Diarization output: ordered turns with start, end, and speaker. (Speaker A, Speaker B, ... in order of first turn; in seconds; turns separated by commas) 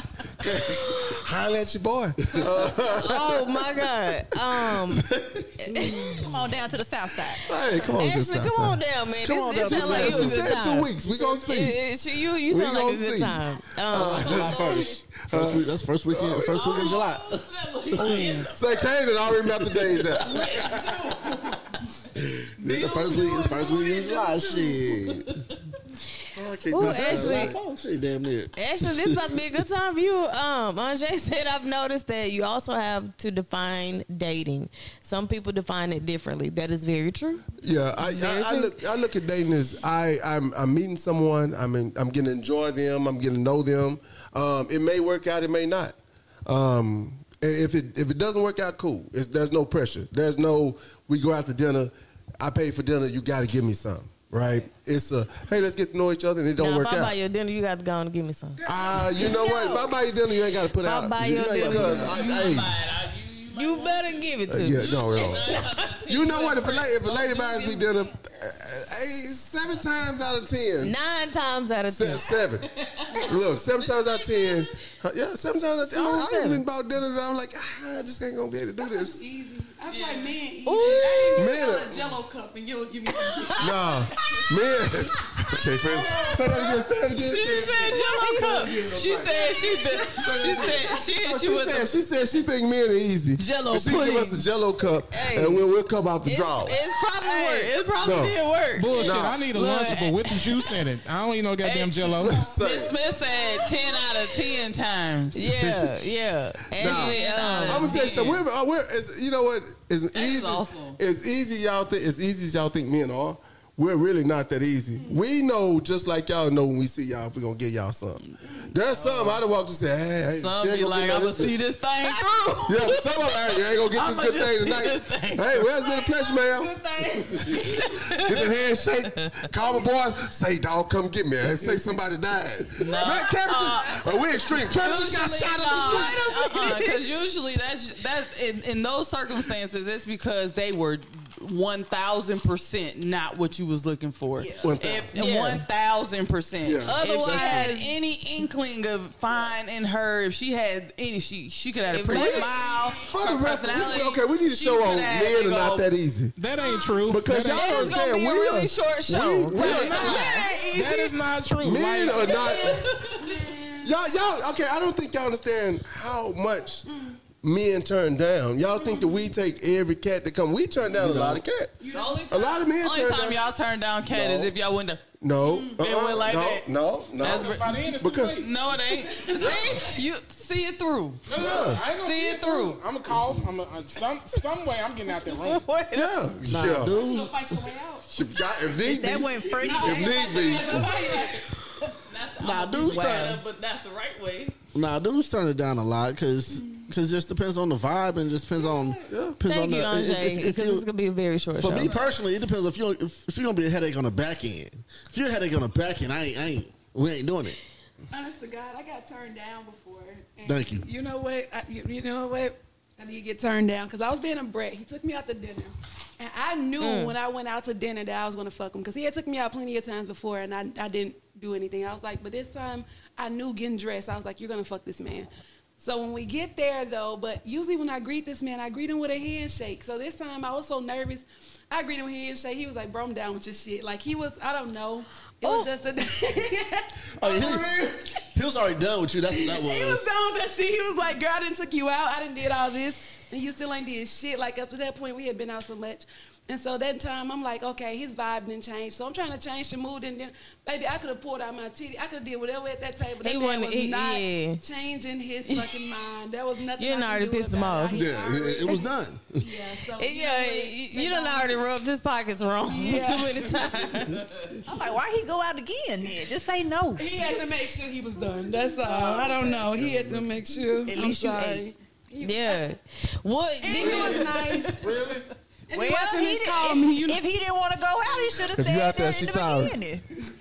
Speaker A: 0.4-6.2, Speaker B: 2.9-5.1, Speaker B: 5.6-6.3, Speaker C: 6.1-7.4, Speaker A: 7.5-8.8, Speaker B: 7.9-14.9, Speaker D: 9.2-10.6, Speaker A: 9.6-11.8, Speaker A: 12.5-16.9, Speaker D: 13.9-18.5, Speaker E: 16.5-18.9, Speaker B: 18.0-18.5, Speaker A: 18.5-21.4, Speaker E: 20.1-21.6, Speaker D: 22.2-25.3, Speaker E: 22.6-25.3, Speaker A: 26.4-27.6, Speaker B: 26.7-27.6, Speaker D: 26.8-29.3, Speaker B: 28.6-37.5, Speaker A: 37.6-57.2, Speaker B: 38.0-38.7, Speaker B: 56.6-58.6, Speaker F: 58.6-59.4, Speaker A: 58.6-62.8, Speaker C: 59.2-60.0, Speaker B: 60.8-62.4, Speaker D: 61.6-62.0, Speaker E: 61.8-68.0, Speaker B: 63.5-65.9, Speaker A: 64.5-65.5, Speaker A: 66.0-71.0, Speaker B: 70.8-72.4, Speaker A: 71.9-72.7, Speaker A: 73.2-79.2, Speaker B: 75.8-76.6, Speaker F: 78.8-83.8, Speaker E: 79.9-81.0, Speaker B: 80.7-81.5, Speaker A: 81.3-82.1, Speaker A: 83.6-96.8, Speaker E: 85.9-86.7, Speaker E: 87.3-91.9, Speaker B: 88.3-88.7, Speaker F: 89.6-91.0, Speaker E: 93.4-94.5, Speaker E: 95.1-95.6, Speaker E: 96.3-100.8, Speaker B: 96.9-97.7, Speaker A: 98.0-98.4, Speaker G: 98.8-102.4, Speaker A: 98.9-99.5, Speaker E: 101.6-105.6, Speaker A: 102.1-103.0, Speaker F: 102.3-104.1, Speaker B: 105.3-108.1, Speaker A: 105.5-106.0, Speaker A: 106.7-121.6, Speaker E: 106.8-108.4, Speaker E: 110.1-111.0, Speaker E: 118.8-119.4, Speaker E: 120.3-125.7, Speaker A: 122.6-126.7, Speaker A: 127.3-136.6, Speaker E: 127.4-128.5, Speaker E: 132.8-134.0, Speaker E: 134.7-155.9, Speaker C: 134.8-136.9, Speaker C: 144.4-144.8, Speaker A: 144.6-145.2, Speaker B: 145.1-145.6, Speaker A: 146.6-146.9, Speaker B: 146.9-147.8, Speaker C: 147.2-147.9, Speaker B: 151.9-152.6, Speaker A: 152.1-156.3, Speaker G: 156.4-157.9, Speaker A: 157.1-160.3, Speaker B: 157.5-160.6, Speaker E: 157.5-161.1, Speaker G: 159.6-162.3, Speaker A: 161.6-162.9, Speaker E: 162.3-163.1, Speaker F: 163.1-163.9, Speaker A: 163.8-166.9, Speaker F: 166.9-167.2, Speaker A: 167.4-171.8, Speaker F: 168.8-169.2, Speaker D: 170.9-171.4, Speaker F: 171.8-172.4, Speaker E: 171.9-176.7, Speaker A: 172.3-173.4, Speaker A: 174.1-174.5, Speaker A: 175.2-178.4, Speaker E: 177.2-181.3, Speaker G: 177.2-178.5, Speaker F: 179.0-180.0, Speaker G: 181.3-185.7, Speaker A: 181.4-181.8, Speaker E: 181.9-182.8, Speaker B: 185.3-186.1, Speaker A: 185.9-187.0, Speaker D: 186.4-187.7, Speaker F: 186.8-188.1, Speaker A: 188.1-190.9, Speaker C: 188.7-190.8, Speaker F: 189.5-191.5, Speaker E: 192.0-194.6, Speaker D: 192.4-193.4, Speaker B: 192.8-193.4, Speaker D: 194.7-200.9, Speaker F: 198.6-198.9, Speaker A: 199.1-199.4, Speaker B: 199.4-202.0, Speaker D: 201.6-207.6, Speaker F: 208.1-237.6, Speaker D: 210.4-210.9, Speaker B: 216.8-217.2, Speaker D: 237.2-240.1, Speaker A: 237.3-238.0, Speaker F: 239.3-261.6, Speaker B: 253.2-254.6, Speaker B: 255.4-256.0, Speaker B: 256.8-258.1, Speaker D: 257.9-259.5, Speaker B: 259.9-264.5, Speaker F: 262.6-264.1, Speaker C: 264.7-267.1, Speaker F: 267.0-272.7, Speaker D: 269.4-270.3, Speaker C: 270.8-271.7, Speaker B: 272.2-274.7, Speaker F: 273.6-275.1, Speaker G: 273.8-275.3, Speaker F: 275.7-277.3, Speaker C: 275.7-280.1, Speaker F: 278.1-278.4, Speaker A: 278.6-279.8